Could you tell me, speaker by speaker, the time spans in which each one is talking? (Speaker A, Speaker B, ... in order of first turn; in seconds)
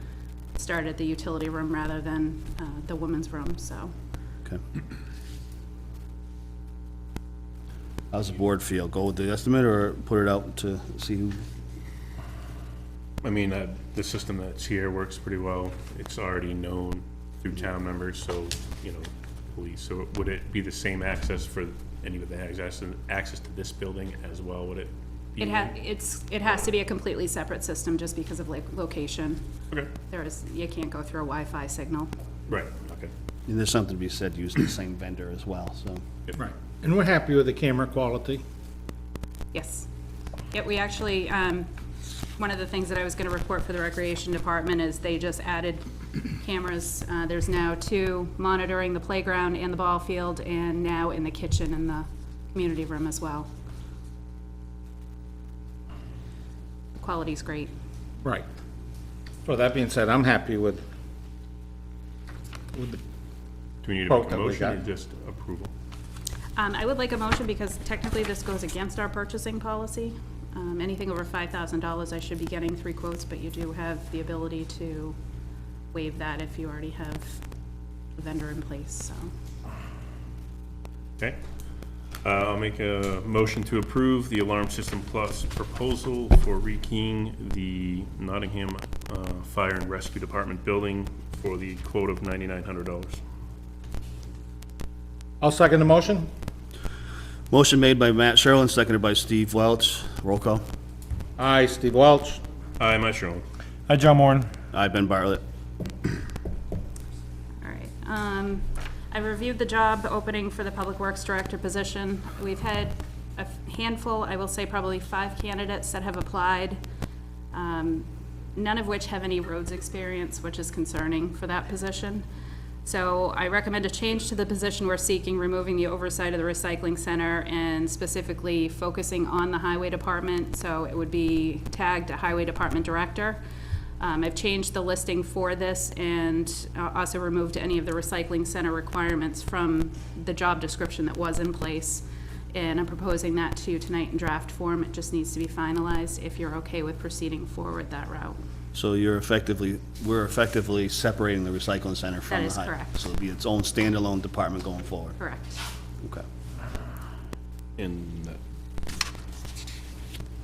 Speaker A: 0.6-3.9, 25.4-29.4, 30.1-32.1, 39.5-39.9, 40.5-41.7, 42.4-53.5, 57.0-57.7, 66.6-75.2, 75.9-77.4, 78.2-79.3, 107.6-116.8, 117.5-122.2, 122.8-133.4, 134.0-148.4, 152.3-153.1, 155.2-155.6
Speaker B: 8.1-11.4, 33.5-36.0, 97.5-100.6, 104.7-105.4, 148.7-155.2
Speaker C: 13.2-25.7, 32.5-33.1, 63.8-65.7, 82.2-93.2, 102.8-103.4, 157.8-158.4
Speaker D: 36.4-38.4, 59.5-60.8, 62.7-63.0, 64.1-64.8, 95.4-96.3, 101.4-102.4, 103.9-104.5